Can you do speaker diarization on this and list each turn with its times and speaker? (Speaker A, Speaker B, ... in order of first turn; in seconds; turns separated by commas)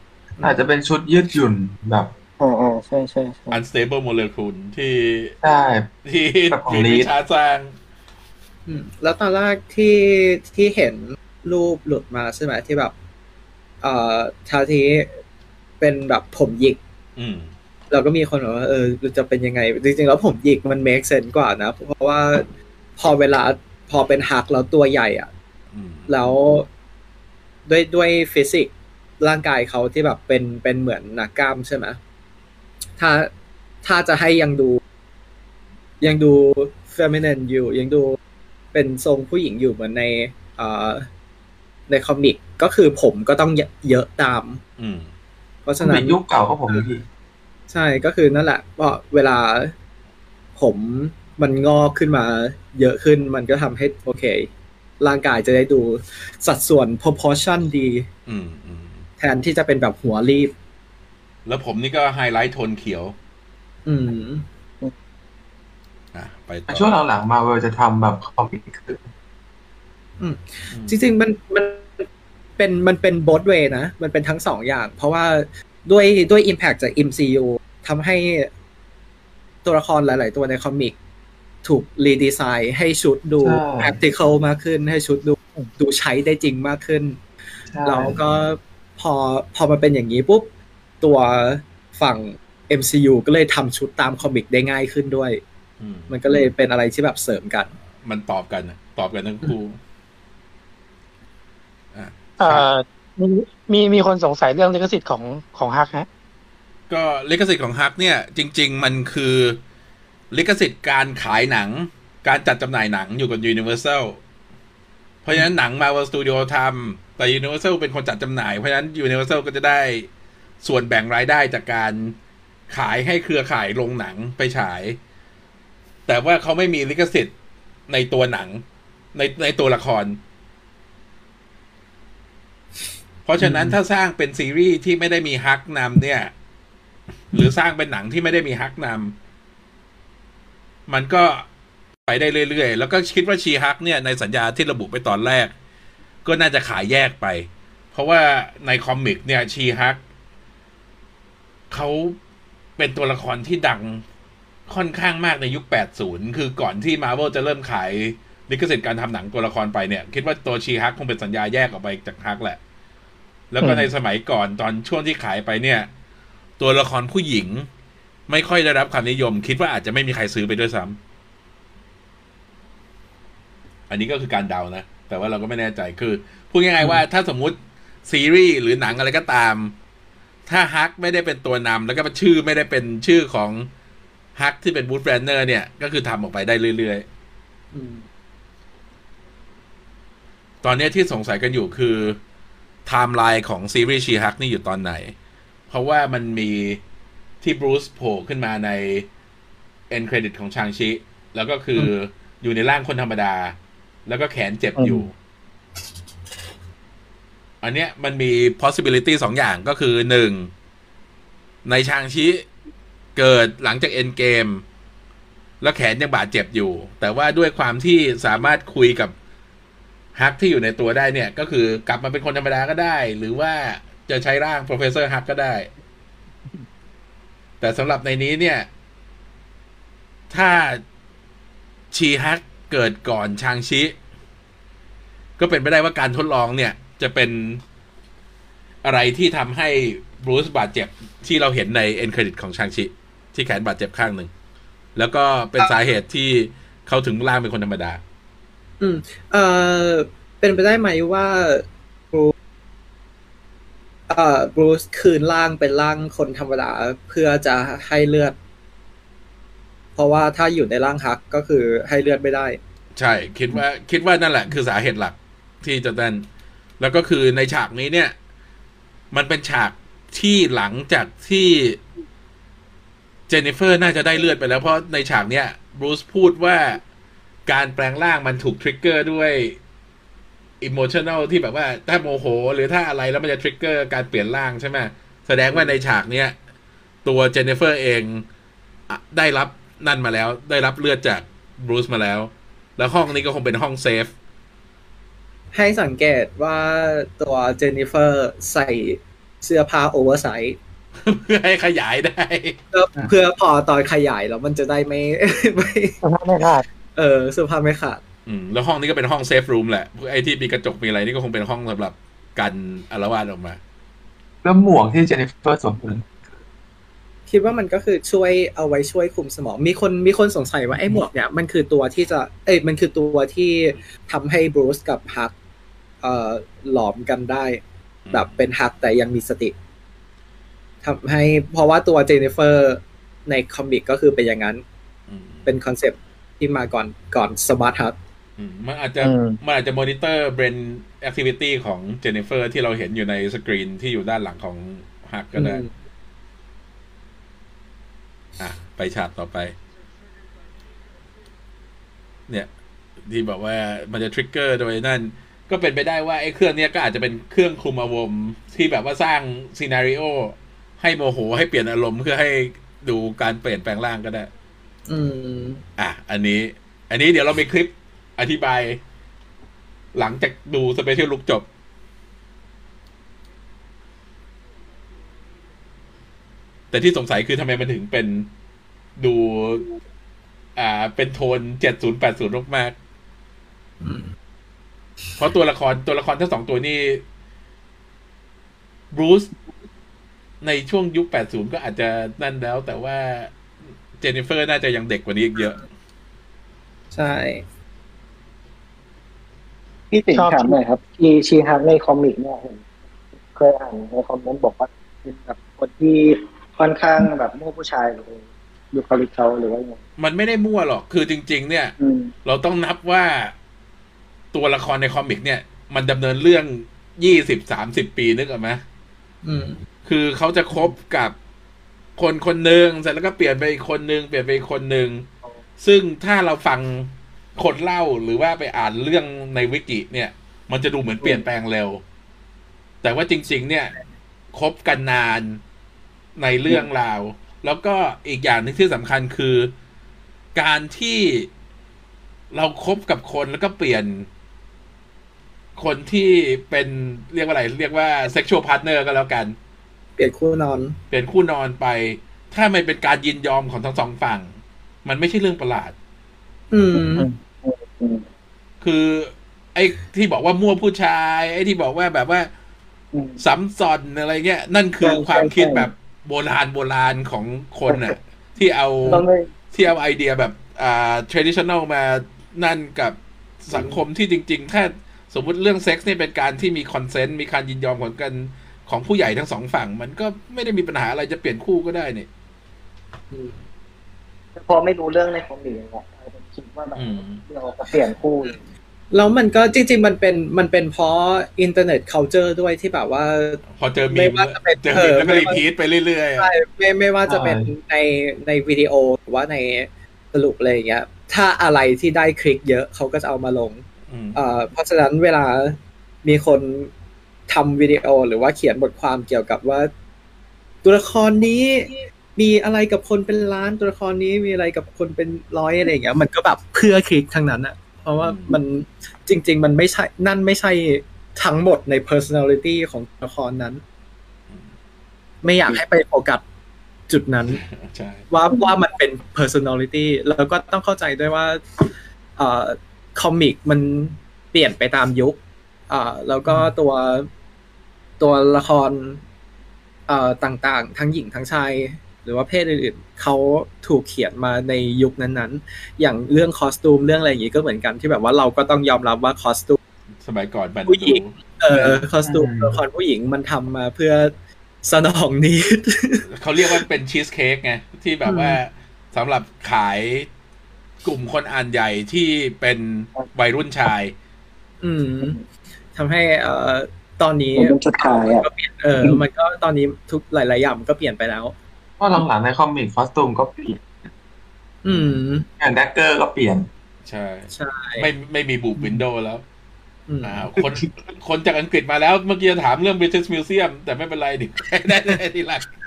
Speaker A: 0.4-0.6, Speaker B: 0.4-2.1, Speaker C: 2.4-3.6, Speaker D: 3.5-5.3, Speaker B: 5.4-5.9, Speaker D: 6.0-7.7, Speaker B: 6.5-7.1, Speaker A: 8.7-12.9, Speaker A: 13.8-15.1, Speaker A: 15.8-16.8, Speaker D: 17.1-17.5, Speaker A: 17.9-25.3, Speaker D: 25.7-26.3, Speaker A: 26.1-26.7, Speaker A: 27.6-32.0, Speaker A: 33.0-33.3, Speaker A: 33.8-34.8, Speaker A: 36.0-38.2, Speaker A: 38.7-41.1, Speaker A: 41.9-44.6, Speaker D: 44.8-45.1, Speaker A: 45.6-46.9, Speaker B: 45.8-47.0, Speaker A: 47.7-49.7, Speaker A: 50.6-54.5, Speaker A: 55.0-58.1, Speaker D: 58.2-59.0, Speaker A: 59.2-60.5, Speaker D: 61.5-63.1, Speaker A: 63.9-64.5, Speaker D: 66.1-66.9, Speaker B: 66.7-69.0, Speaker A: 70.2-72.1, Speaker D: 70.7-71.0, Speaker A: 72.6-78.5, Speaker A: 79.6-81.0, Speaker A: 81.6-87.2, Speaker B: 83.4-84.0, Speaker B: 87.7-88.2, Speaker A: 87.8-90.5, Speaker A: 91.0-95.4, Speaker D: 95.8-96.1, Speaker A: 96.1-97.7, Speaker D: 98.0-99.8, Speaker D: 101.9-102.7, Speaker E: 102.4-106.1, Speaker D: 106.9-109.6, Speaker D: 110.3-114.2, Speaker D: 115.2-120.1, Speaker D: 120.6-122.1, Speaker D: 122.7-125.0, Speaker D: 126.1-127.3, Speaker D: 127.9-128.6, Speaker D: 129.1-130.2, Speaker D: 133.2-136.3, Speaker A: 133.4-133.8, Speaker D: 137.3-139.1, Speaker D: 140.9-141.4, Speaker D: 142.1-145.5, Speaker D: 146.2-150.0, Speaker D: 151.7-152.2, Speaker D: 152.8-154.0, Speaker D: 154.7-162.6, Speaker D: 163.5-165.9, Speaker E: 163.6-163.9, Speaker D: 166.6-167.7, Speaker D: 168.3-171.0, Speaker D: 173.9-179.7, Speaker D: 180.5-183.7, Speaker D: 184.3-187.1, Speaker A: 187.7-188.0, Speaker D: 190.6-192.2, Speaker D: 192.8-195.1, Speaker D: 195.7-196.8, Speaker D: 197.4-199.1, Speaker D: 199.9-205.1, Speaker E: 204.8-205.1, Speaker D: 207.6-210.5, Speaker D: 211.6-212.4, Speaker D: 213.2-214.6, Speaker D: 215.6-219.1, Speaker D: 220.1-225.7, Speaker D: 227.6-228.7, Speaker D: 230.3-230.8, Speaker D: 231.9-233.9, Speaker D: 235.4-237.6, Speaker D: 238.8-244.3, Speaker D: 244.9-248.0, Speaker A: 248.8-252.3, Speaker A: 254.1-258.4, Speaker A: 259.9-262.6, Speaker D: 262.9-266.2, Speaker D: 266.8-268.1, Speaker D: 269.1-271.8, Speaker D: 273.3-276.8, Speaker D: 277.4-279.6, Speaker D: 280.6-286.3, Speaker A: 285.5-285.8, Speaker D: 287.0-288.2, Speaker D: 288.9-294.1, Speaker A: 295.5-300.6, Speaker D: 301.0-302.6, Speaker A: 302.7-306.0, Speaker E: 306.0-306.6, Speaker A: 306.9-308.0, Speaker D: 308.2-313.6, Speaker B: 314.4-316.0, Speaker A: 317.3-325.3, Speaker A: 326.0-329.5, Speaker D: 328.1-328.4, Speaker A: 330.8-334.6, Speaker D: 335.1-335.5, Speaker A: 335.4-338.0, Speaker D: 338.4-345.6, Speaker E: 339.0-339.4, Speaker A: 345.3-345.7, Speaker D: 348.4-349.5, Speaker D: 353.1-364.3, Speaker A: 364.9-365.6, Speaker D: 365.8-368.8, Speaker D: 369.9-371.4, Speaker D: 376.7-378.3, Speaker D: 379.0-379.7, Speaker D: 380.6-382.7, Speaker A: 383.8-384.1, Speaker D: 385.2-387.0, Speaker D: 388.9-389.3, Speaker D: 390.4-393.3, Speaker D: 394.0-395.6, Speaker A: 396.9-397.4, Speaker C: 399.9-402.6, Speaker E: 400.1-400.6, Speaker C: 403.3-409.8, Speaker D: 410.0-411.7, Speaker C: 411.8-412.1, Speaker D: 412.2-413.3, Speaker D: 414.3-418.6, Speaker A: 419.2-419.6, Speaker D: 419.8-421.1, Speaker D: 422.0-425.1, Speaker D: 425.6-431.8, Speaker D: 432.8-433.7, Speaker D: 434.3-435.4, Speaker D: 436.2-439.5, Speaker D: 440.3-441.3, Speaker D: 442.3-444.1, Speaker D: 445.6-449.3, Speaker A: 450.0-450.8, Speaker D: 450.9-454.3, Speaker D: 454.8-455.7, Speaker A: 456.5-457.1, Speaker C: 456.7-458.0, Speaker D: 458.6-462.3, Speaker C: 462.9-463.2, Speaker D: 463.2-482.1, Speaker C: 464.8-465.7, Speaker C: 467.7-467.9, Speaker C: 468.9-469.3, Speaker A: 473.5-473.8, Speaker A: 483.1-483.4, Speaker C: 484.4-488.4, Speaker D: 486.8-487.2, Speaker A: 488.9-495.4, Speaker D: 493.5-496.3, Speaker A: 496.2-506.7, Speaker B: 497.1-497.5, Speaker D: 503.9-504.2, Speaker A: 507.3-509.7, Speaker A: 510.6-523.6, Speaker D: 518.0-518.4, Speaker A: 525.2-526.2, Speaker A: 526.9-527.4, Speaker D: 527.3-528.0, Speaker A: 528.1-537.1, Speaker A: 538.0-539.0, Speaker A: 539.9-549.6, Speaker D: 550.0-551.2, Speaker A: 550.7-554.1, Speaker B: 551.5-552.6, Speaker A: 554.6-556.6, Speaker D: 556.1-560.1, Speaker A: 558.0-558.4, Speaker D: 560.8-563.9, Speaker A: 564.6-565.2, Speaker A: 565.7-571.3, Speaker C: 567.4-568.2, Speaker B: 571.8-573.6, Speaker A: 574.6-575.3, Speaker D: 574.7-574.9, Speaker B: 575.4-576.5, Speaker D: 576.9-579.2, Speaker A: 577.3-577.9, Speaker A: 579.9-580.4, Speaker D: 580.0-585.5